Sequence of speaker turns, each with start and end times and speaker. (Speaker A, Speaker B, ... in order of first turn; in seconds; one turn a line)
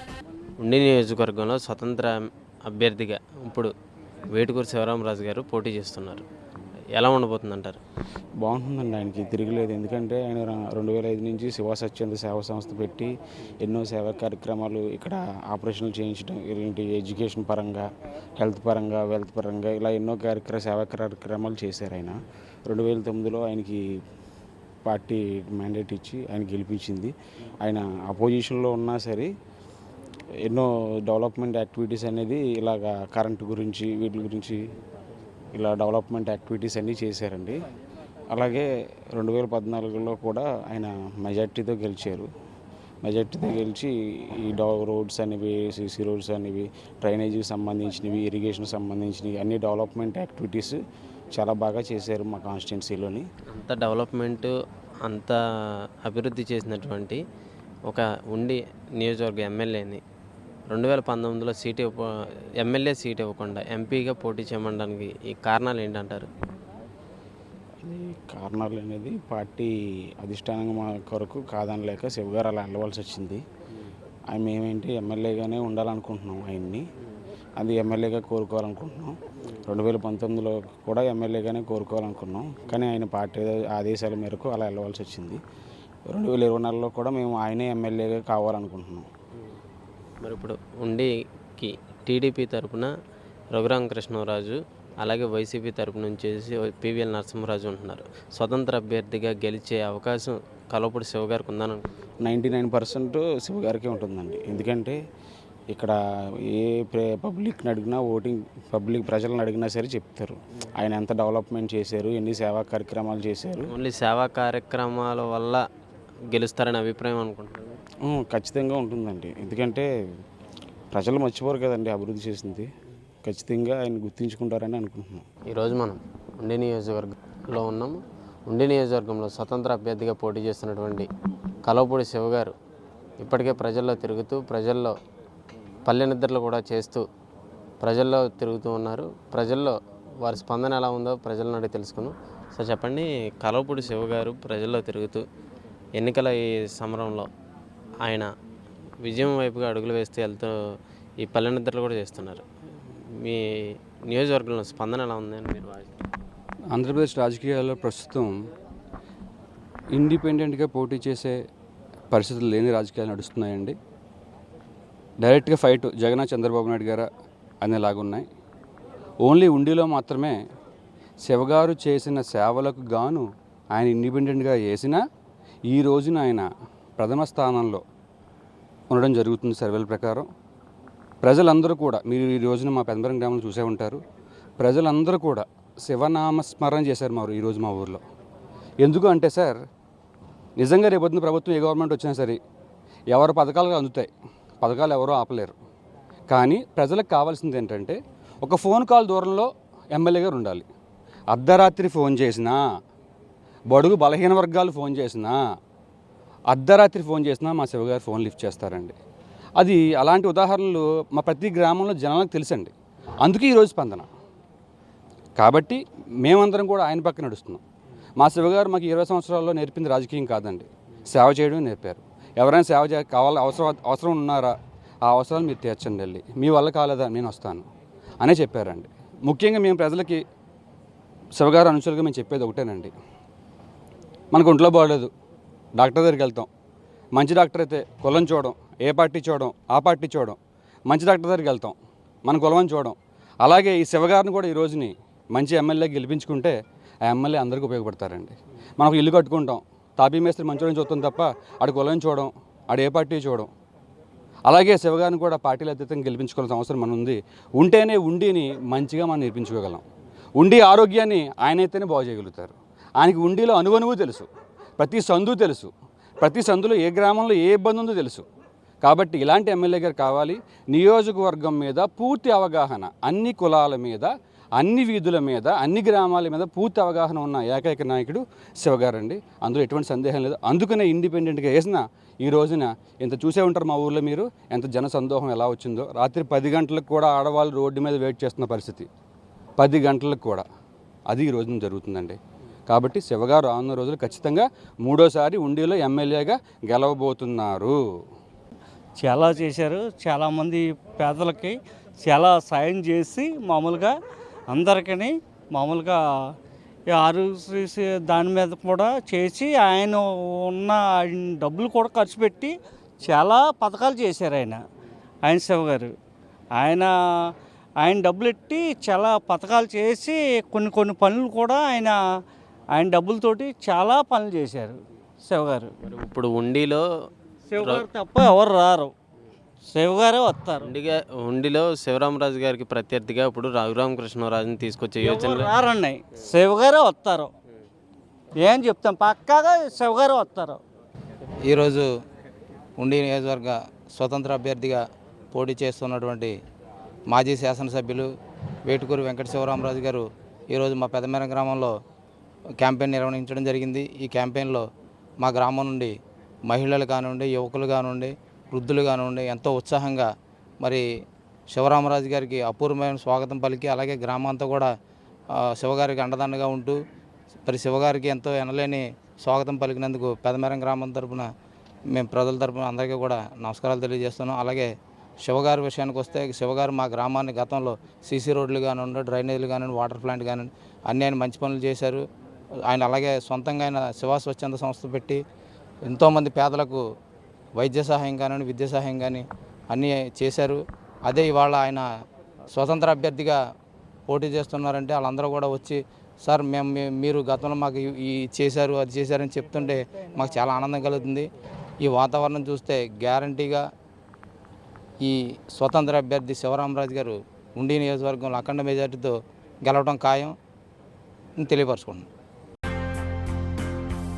Speaker A: 0.6-3.7
Speaker A: 4.3-6.2
Speaker A: 7.0-7.8
Speaker B: 8.4-17.8
Speaker B: 18.4-23.9
Speaker B: 24.9-29.3
Speaker B: 30.5-34.6
Speaker B: 35.5-37.6
Speaker B: 38.3-42.3
Speaker B: 43.0-43.9
Speaker B: 44.4-50.8
Speaker B: 51.4-53.3
Speaker A: 53.5-54.5
Speaker A: 55.1-55.4
Speaker A: 56.0-57.2
Speaker A: 57.9-60.0
Speaker A: 60.7-62.0
Speaker A: 62.6-66.3
Speaker B: 67.8-73.4
Speaker B: 74.3-76.8
Speaker B: 77.6-85.4
Speaker B: 86.1-89.1
Speaker A: 90.2-92.9
Speaker A: 93.5-101.8
Speaker B: 102.2-105.0
Speaker B: 106.5-113.7
Speaker A: 113.7-115.6
Speaker A: 116.3-117.8
Speaker B: 118.1-119.9
Speaker B: 120.9-122.7
Speaker B: 123.2-125.2
Speaker A: 125.5-131.1
Speaker A: 131.7-132.5
Speaker A: 133.2-134.9
Speaker A: 135.9-137.0
Speaker A: 137.8-145.2
Speaker A: 146.0-147.3
Speaker A: 149.0-150.5
Speaker A: 151.2-152.5
Speaker A: 154.1-155.9
Speaker C: 156.7-158.3
Speaker C: 159.9-161.4
Speaker C: 162.1-163.8
Speaker C: 165.2-167.1
Speaker C: 167.6-168.3
Speaker C: 169.2-170.4
Speaker C: 171.2-175.0
Speaker C: 175.7-177.8
Speaker C: 178.9-180.3
Speaker C: 181.2-184.0
Speaker C: 184.6-188.0
Speaker C: 188.8-189.6
Speaker C: 190.6-192.4
Speaker C: 193.1-194.1
Speaker C: 194.6-195.6
Speaker C: 196.3-200.7
Speaker C: 201.3-202.6
Speaker C: 203.7-205.4
Speaker C: 206.5-209.0
Speaker C: 209.6-212.7
Speaker C: 213.2-214.1
Speaker C: 215.4-217.6
Speaker C: 218.2-224.6
Speaker C: 225.1-227.7
Speaker C: 228.2-230.2
Speaker C: 231.4-232.9
Speaker C: 234.3-235.1
Speaker C: 235.8-236.5
Speaker C: 237.1-246.6
Speaker C: 247.1-253.5
Speaker C: 254.5-259.8
Speaker C: 260.4-264.3
Speaker C: 264.8-268.2
Speaker C: 268.8-288.9
Speaker C: 289.6-290.5
Speaker C: 291.1-297.8
Speaker D: 299.0-303.9
Speaker D: 304.5-306.0
Speaker D: 306.9-314.6
Speaker D: 315.2-315.9
Speaker D: 316.6-316.9
Speaker D: 317.8-322.0
Speaker D: 322.8-325.7
Speaker A: 325.8-326.9
Speaker D: 327.5-328.9
Speaker A: 327.6-327.9
Speaker D: 329.7-330.7
Speaker A: 330.6-335.5
Speaker D: 335.0-337.3
Speaker D: 338.4-340.6
Speaker E: 341.5-341.9
Speaker E: 342.8-344.8
Speaker E: 345.3-346.3
Speaker E: 347.1-348.1
Speaker E: 348.7-351.7
Speaker E: 352.6-354.6
Speaker E: 355.2-355.9
Speaker E: 356.5-360.1
Speaker E: 361.5-364.7
Speaker E: 365.6-366.8
Speaker E: 367.5-371.3
Speaker E: 371.9-374.7
Speaker E: 375.2-382.0
Speaker E: 382.7-385.2
Speaker E: 385.9-386.8
Speaker E: 387.6-391.9
Speaker E: 392.5-393.4
Speaker E: 394.1-401.3
Speaker E: 401.8-403.6
Speaker E: 405.0-410.3
Speaker E: 411.4-412.1